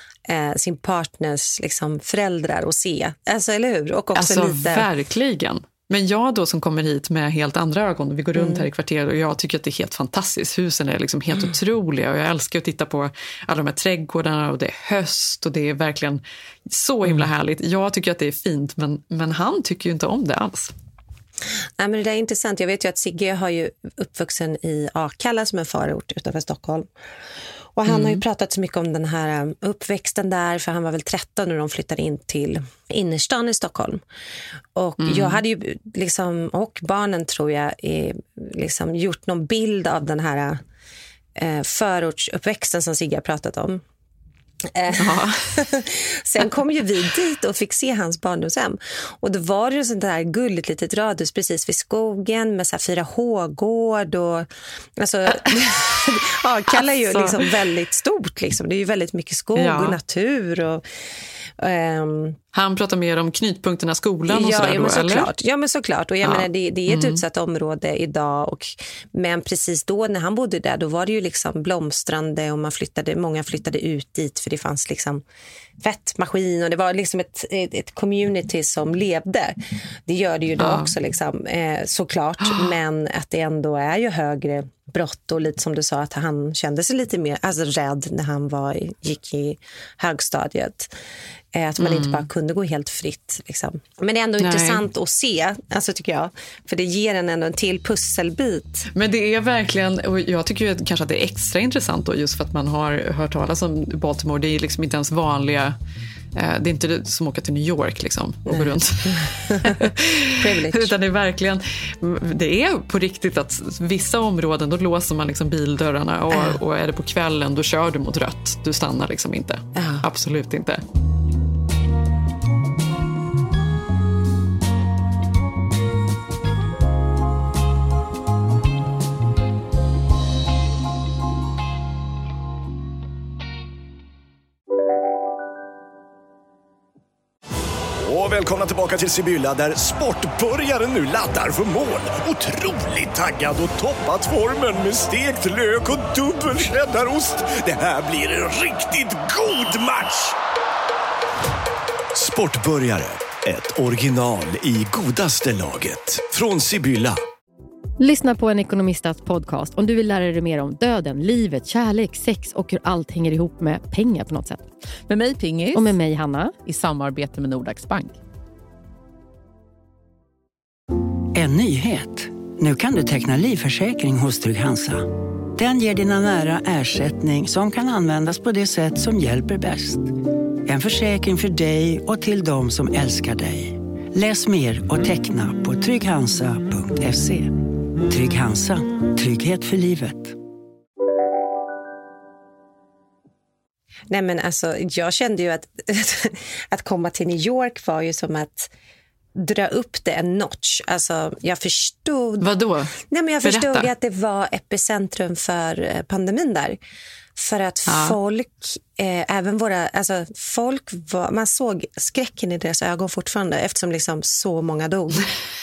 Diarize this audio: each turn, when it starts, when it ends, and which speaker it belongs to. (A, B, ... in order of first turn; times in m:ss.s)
0:00.2-0:04.9 A
0:04.1-0:20.7 B
0:08.3-0:08.6 A
0:21.8-0:26.9 A
0:27.8-0:34.0 A
0:27.9-0:28.2 B
0:34.7-0:40.6 A
0:35.0-0:35.4 B
0:41.4-0:43.8 A
0:44.7-1:00.8 A
0:45.0-0:45.6 B
0:56.7-0:57.5 B
0:59.6-1:00.0 B
1:01.6-1:02.4 A
1:02.5-1:05.3 B
1:04.3-1:15.2 A
1:06.2-1:07.2 B
1:15.8-1:30.9 A
1:20.6-1:20.9 B
1:31.5-1:38.9 A
1:31.8-1:32.2 B
1:34.4-1:34.8 B
1:38.9-1:45.8 B
1:46.3-2:00.8 B
1:48.5-1:50.9 A
1:56.3-1:56.6 A
1:59.7-2:00.0 A
2:18.0-2:30.3 C
2:32.1-2:37.2 C
2:38.0-2:44.6 D
2:45.1-2:45.9 E
2:45.7-2:46.5 D
2:46.6-2:48.2 E
2:51.3-3:00.1 F
3:00.6-3:07.5 F
3:08.1-3:10.4 F
3:14.1-3:18.7 A
3:19.3-3:26.8 A
3:22.4-3:23.9 B
3:27.4-3:35.3 A
3:27.9-3:28.2 B